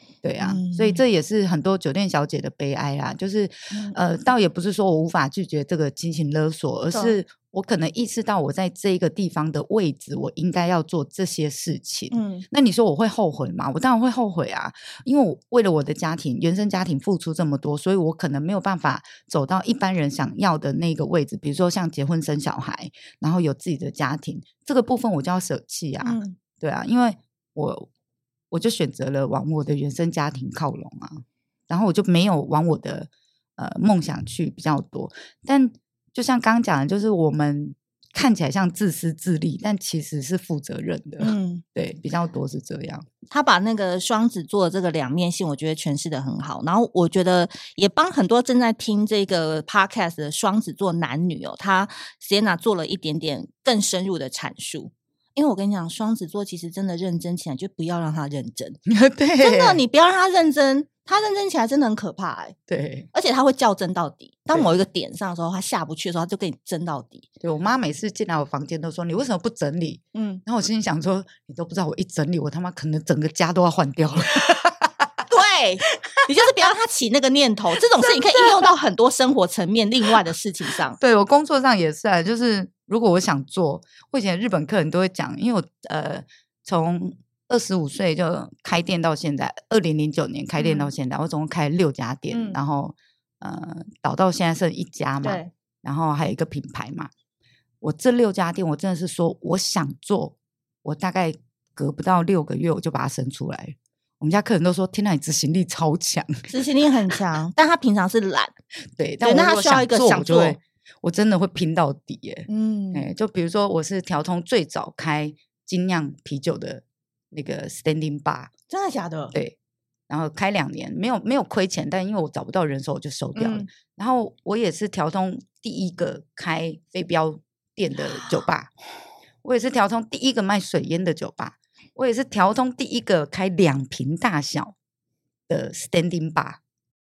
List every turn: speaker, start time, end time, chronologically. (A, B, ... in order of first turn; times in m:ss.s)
0:00.2-0:27.9 A
0:00.4-0:01.0 B
0:03.7-0:04.0 B
0:06.9-0:07.2 B
0:12.1-0:12.4 B
0:26.0-0:26.4 B
0:28.5-0:43.1 A
0:41.2-0:41.6 B
0:43.3-0:58.8 B
0:58.9-0:59.8 A
0:59.4-1:02.6 B
1:02.7-1:03.1 A
1:03.1-1:07.3 B
1:07.4-1:15.1 A
1:10.1-1:10.4 B
1:15.3-1:21.0 B
1:21.0-1:37.1 A
1:30.6-1:30.9 B
1:32.3-1:32.6 B
1:35.2-1:35.5 B
1:37.8-1:46.5 A
1:46.5-1:48.5 B
1:49.0-1:58.5 A
1:49.2-1:50.6 B
1:52.5-1:53.1 B
1:58.7-1:59.4 B
2:00.1-2:08.7 A
2:03.4-2:03.7 B
2:08.0-2:08.4 B
2:09.4-2:14.8 A
2:15.5-2:16.6 A